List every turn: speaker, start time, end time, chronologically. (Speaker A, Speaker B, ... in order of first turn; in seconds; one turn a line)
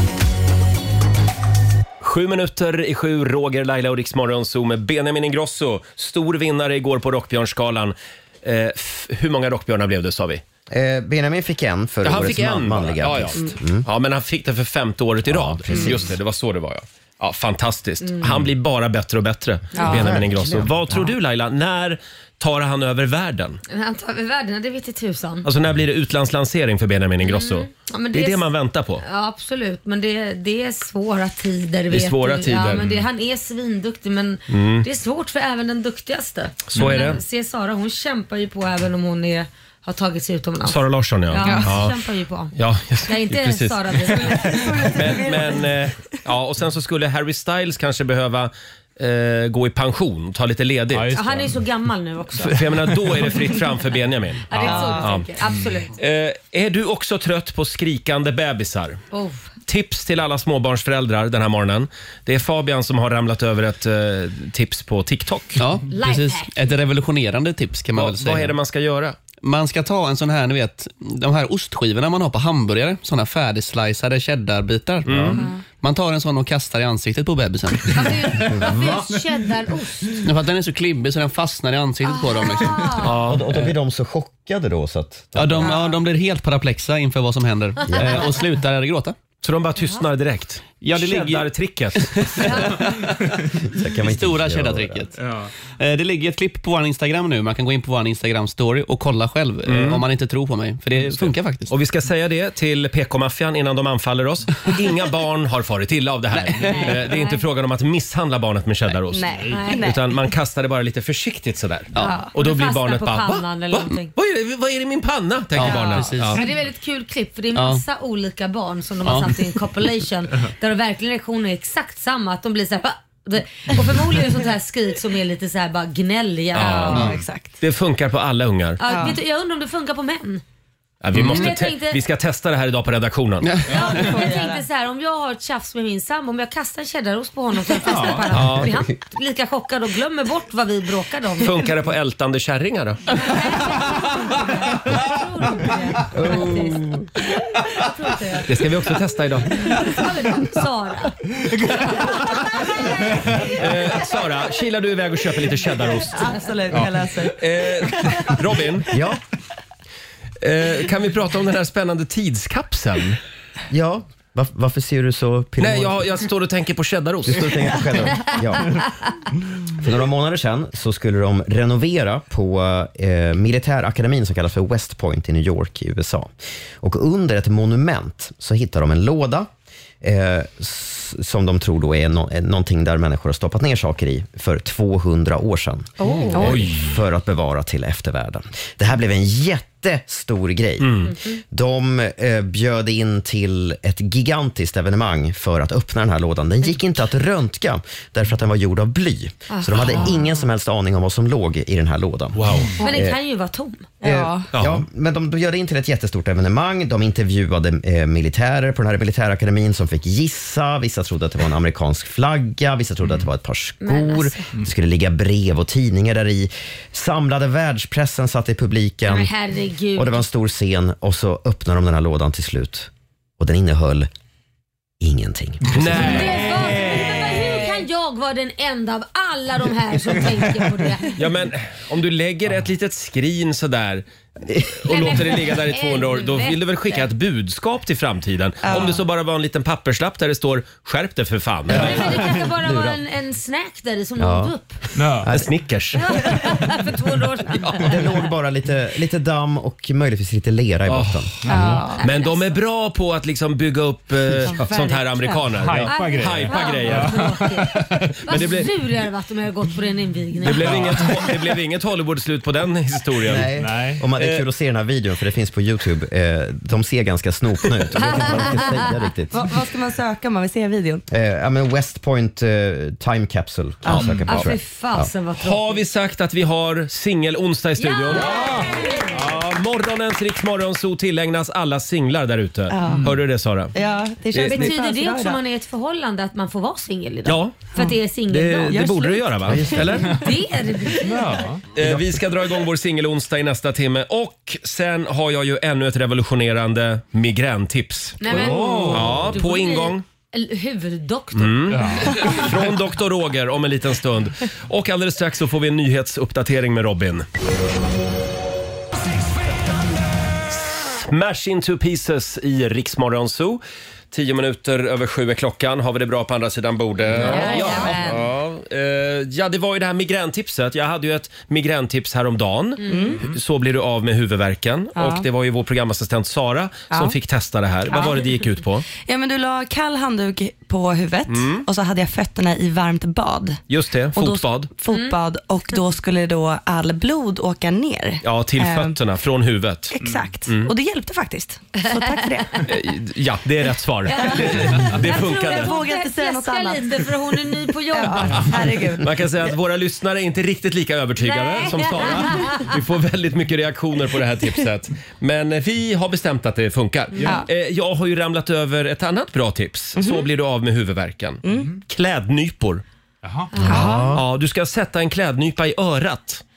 Speaker A: 2.0-10.4
Speaker B: 10.7-13.9
Speaker A: 12.0-23.6
Speaker B: 15.2-16.1
Speaker C: 19.8-20.2
Speaker B: 19.8-21.1
Speaker D: 23.7-25.5
Speaker A: 25.4-29.0
Speaker D: 27.2-28.4
Speaker D: 29.0-42.5
Speaker A: 31.9-33.0
Speaker A: 34.5-34.9
Speaker A: 36.7-37.2
Speaker A: 40.6-42.0
Speaker C: 41.4-41.8
Speaker A: 42.5-51.2
Speaker D: 43.1-45.0
Speaker C: 44.1-45.7
Speaker E: 50.9-51.6
Speaker D: 51.1-52.6
Speaker A: 52.4-55.3
Speaker D: 54.5-56.0
Speaker E: 54.5-54.9
Speaker C: 54.6-55.1
Speaker A: 56.0-59.0
Speaker D: 59.1-59.5
Speaker A: 59.7-65.7
Speaker F: 65.6-68.6
Speaker D: 65.9-66.5
Speaker A: 68.0-69.2
Speaker F: 69.4-78.2
Speaker A: 75.1-75.4
Speaker D: 77.9-80.3
Speaker E: 78.6-79.0
Speaker F: 80.2-82.9
Speaker D: 82.0-83.1
Speaker A: 83.0-83.5
Speaker B: 83.3-85.8
Speaker F: 85.3-89.2
Speaker B: 87.9-88.3
Speaker A: 89.4-92.8
Speaker F: 90.8-92.9
Speaker D: 92.4-93.0
Speaker B: 93.7-95.1
Speaker F: 94.0-95.1
Speaker E: 95.2-95.5
Speaker F: 95.8-101.7
Speaker A: 99.7-100.0
Speaker A: 101.2-116.4
Speaker C: 106.3-107.0
Speaker D: 106.6-107.4
Speaker C: 109.1-110.3
Speaker D: 109.5-109.9
Speaker C: 112.0-112.3
Speaker D: 112.3-114.1
Speaker F: 115.5-116.5
Speaker C: 115.6-116.0
Speaker D: 116.3-127.1
Speaker F: 117.5-117.8
Speaker F: 119.0-119.4
Speaker A: 126.5-128.8
Speaker C: 126.9-127.5
Speaker F: 126.9-127.2
Speaker D: 128.8-130.4
Speaker C: 128.8-129.2
Speaker A: 131.0-133.5
Speaker D: 131.2-132.0
Speaker F: 133.4-133.8
Speaker D: 133.7-141.7
Speaker C: 133.7-134.6
Speaker E: 137.8-138.4
Speaker A: 138.3-138.7
Speaker A: 141.4-143.1
Speaker D: 143.1-146.8
Speaker B: 146.1-147.1
Speaker D: 147.7-148.5
Speaker A: 148.5-149.6
Speaker D: 149.5-151.2
Speaker D: 151.8-153.0
Speaker A: 153.5-156.4
Speaker C: 156.1-158.2
Speaker D: 156.2-156.5
Speaker A: 157.4-158.9
Speaker B: 158.9-159.2
Speaker A: 160.4-163.2
Speaker B: 163.7-166.1
Speaker A: 165.6-167.8
Speaker B: 167.2-168.8
Speaker B: 169.8-179.5
Speaker B: 180.0-203.2
Speaker C: 186.0-186.7
Speaker A: 186.3-186.9
Speaker A: 190.8-191.1
Speaker D: 191.1-191.4
Speaker D: 199.5-200.1
Speaker A: 202.3-202.7
Speaker D: 202.8-203.9
Speaker C: 204.0-204.5
Speaker B: 204.0-219.3
Speaker A: 204.5-204.8
Speaker D: 213.8-214.5
Speaker D: 219.1-220.2
Speaker B: 219.9-224.1
Speaker B: 225.0-226.3
Speaker A: 225.7-227.7
Speaker D: 226.0-231.2
Speaker A: 231.2-234.1
Speaker A: 234.8-242.2
Speaker D: 234.9-237.1
Speaker C: 238.6-239.0
Speaker B: 241.7-243.0
Speaker D: 241.7-244.8
Speaker B: 244.2-244.5
Speaker E: 245.0-245.3
Speaker B: 245.2-245.5
Speaker A: 245.3-246.2
Speaker D: 246.0-248.0
Speaker A: 247.6-248.0
Speaker B: 247.8-251.7
Speaker A: 250.9-257.2
Speaker E: 251.5-251.7
Speaker C: 251.5-252.0
Speaker D: 252.0-252.5
Speaker C: 254.5-255.4
Speaker E: 255.5-258.1
Speaker D: 255.9-260.7
Speaker A: 258.3-258.7
Speaker A: 260.4-263.5
Speaker E: 260.6-261.2
Speaker B: 263.3-269.4
Speaker E: 263.5-264.0
Speaker A: 264.2-264.4
Speaker D: 268.0-268.8
Speaker C: 269.3-271.0
Speaker B: 271.1-275.1
Speaker C: 273.9-274.2
Speaker D: 274.3-275.8
Speaker A: 275.4-283.7
Speaker D: 277.8-279.2
Speaker C: 282.7-283.2
Speaker C: 283.7-285.4
Speaker A: 284.3-284.7
Speaker D: 284.4-288.9
Speaker A: 287.3-287.6
Speaker A: 288.3-290.1
Speaker C: 288.6-289.8
Speaker B: 289.5-290.1
Speaker D: 290.1-291.4
Speaker E: 291.0-291.6
Speaker A: 291.8-300.0
Speaker D: 298.2-302.4
Speaker E: 298.3-299.3
Speaker A: 301.4-307.3
Speaker E: 301.7-302.4
Speaker A: 310.5-328.9
Speaker C: 317.1-318.2
Speaker D: 317.2-318.1
Speaker D: 322.8-323.1
Speaker C: 322.9-323.2
Speaker C: 325.0-325.3
Speaker C: 326.9-327.2
Speaker C: 327.9-328.3
Speaker C: 329.0-333.6
Speaker A: 331.3-331.7
Speaker A: 333.7-334.7
Speaker C: 334.1-338.9
Speaker D: 334.9-335.2
Speaker A: 338.2-340.7
Speaker C: 340.0-342.7
Speaker E: 340.0-340.3
Speaker D: 341.8-342.6
Speaker A: 342.7-345.7
Speaker D: 344.1-348.5
Speaker C: 344.2-347.1
Speaker C: 347.9-349.1
Speaker A: 348.3-362.8
Speaker D: 351.2-352.7
Speaker C: 360.0-360.3
Speaker C: 361.4-361.7
Speaker E: 363.2-363.6
Speaker D: 363.5-363.9
Speaker B: 363.6-364.2
Speaker C: 363.6-364.1
Speaker A: 363.8-366.4